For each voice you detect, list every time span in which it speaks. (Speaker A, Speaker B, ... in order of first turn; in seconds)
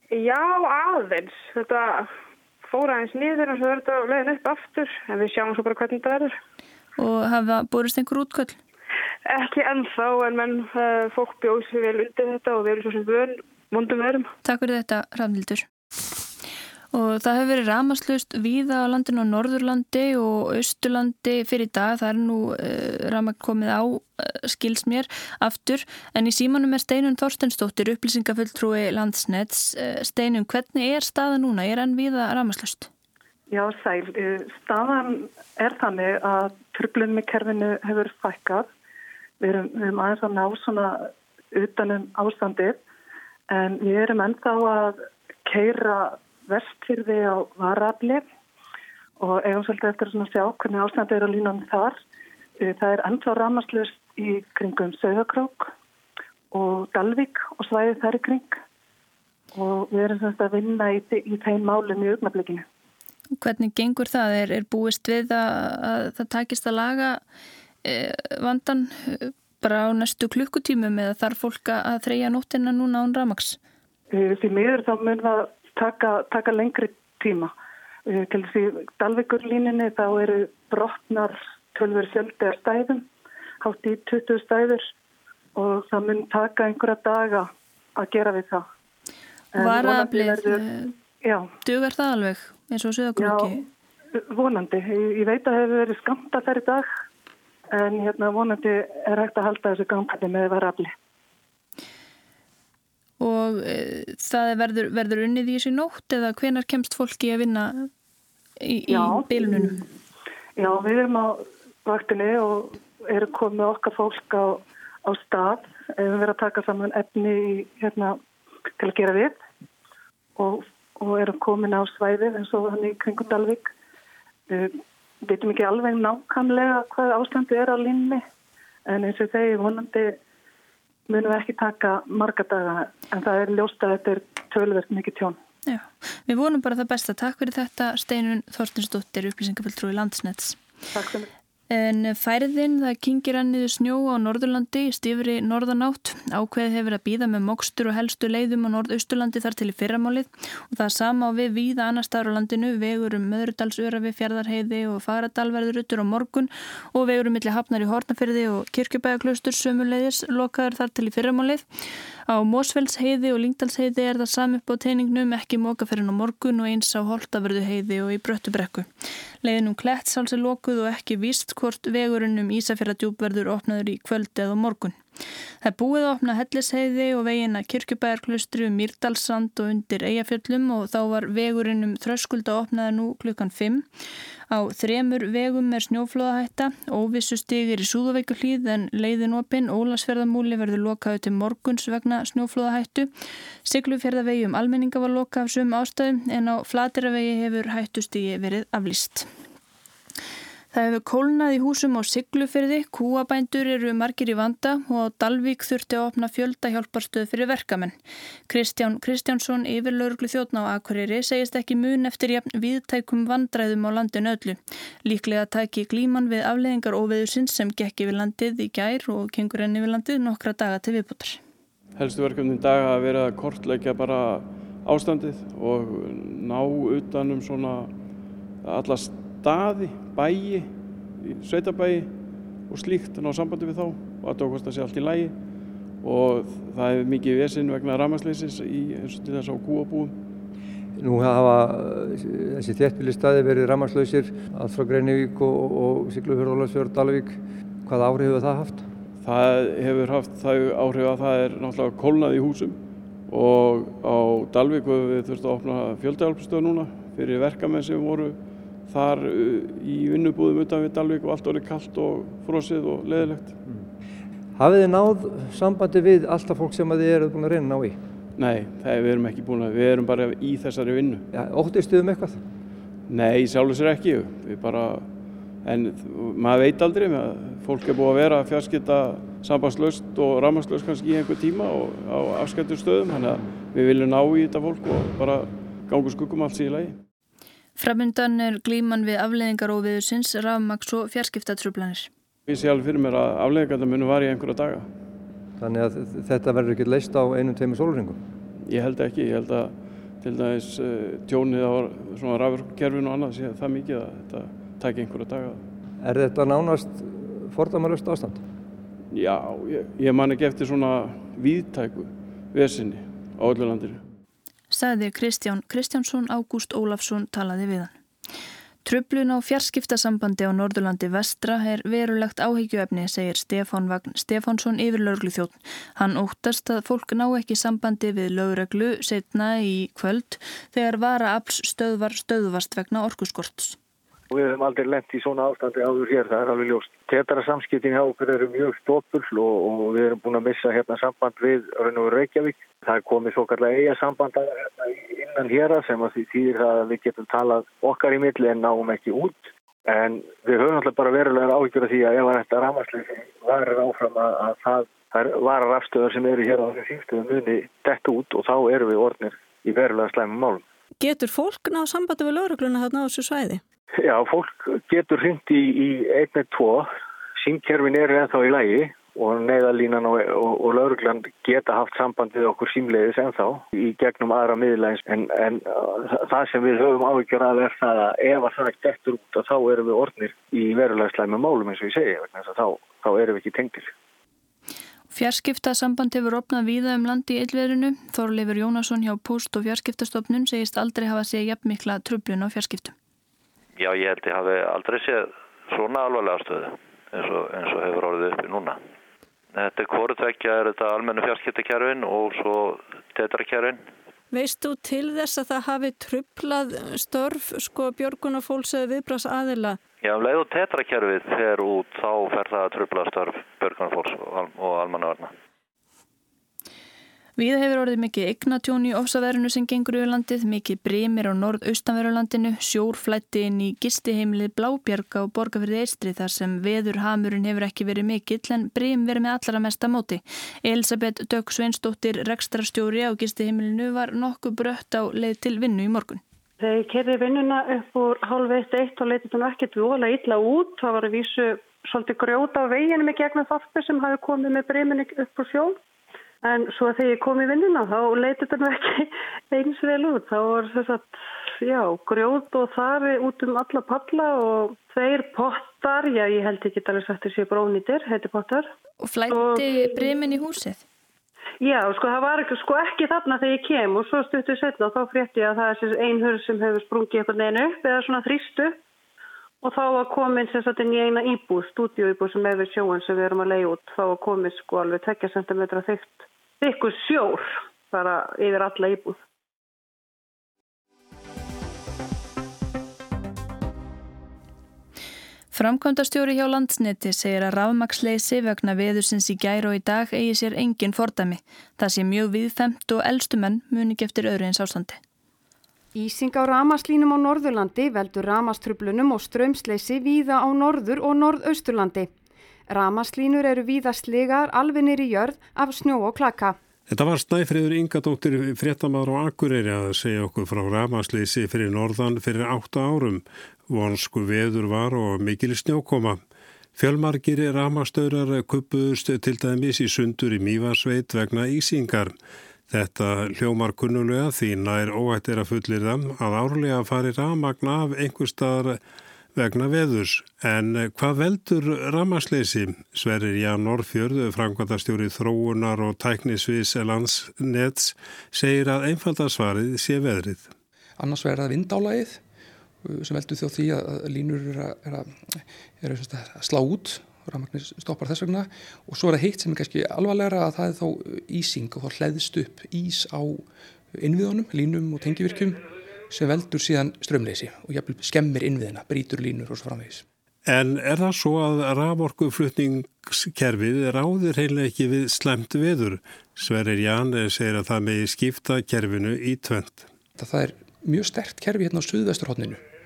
Speaker A: 0.1-2.1, 2.6-6.3, 9.3-14.3
Speaker B: 7.0-8.6, 14.4-15.7, 16.9-32.9, 63.3-67.2, 67.8-73.6, 89.5-90.9, 91.6-93.6, 103.2-107.9, 108.6-109.8, 135.7-140.6, 141.7-161.6, 162.3-168.9, 169.4-175.0, 175.6-183.8, 184.5-193.1, 193.7-199.3, 200.7-207.9, 208.5-221.4, 287.8-292.1, 314.7-317.9, 318.8-333.8, 385.1-392.9, 417.4-436.2, 459.0-460.8, 485.5-495.0
Speaker C: 33.5-38.7, 39.4-42.8, 43.5-48.2, 49.2-52.0, 52.6-55.7, 56.5-58.6, 59.5-62.6, 74.1-77.5, 78.1-83.0, 83.6-84.9, 85.5-88.7, 89.5-90.6, 91.2-91.5, 93.2-93.5, 94.3-96.9, 97.7-100.9, 108.9-109.8, 110.6-118.2, 118.8-119.4, 120.3-123.7, 124.5-128.2, 128.9-130.2, 131.1-135.4, 140.9-141.3
Speaker D: 221.9-227.9, 228.6-235.4, 236.0-240.2, 249.2-263.6, 268.4-271.2, 273.1-287.0, 292.5-294.9, 298.6-305.6, 309.1-314.0
Speaker E: 241.0-248.9, 264.6-268.0, 271.3-272.4, 295.6-298.2, 306.0-308.4
Speaker F: 334.3-360.6, 364.0-383.9
Speaker G: 361.0-363.6, 404.3-409.8
Speaker H: 393.8-398.8, 399.5-403.8, 410.0-415.3
Speaker I: 436.6-445.8, 446.4-458.7, 459.3-460.0, 461.6-468.8, 469.6-479.2
Speaker J: 495.9-502.1, 502.7-506.6
Speaker K: 506.9-516.2, 516.8-522.1, 522.7-528.8, 529.3-540.5, 560.5-569.9
Speaker L: 541.0-542.2, 542.8-560.0, 570.1-572.6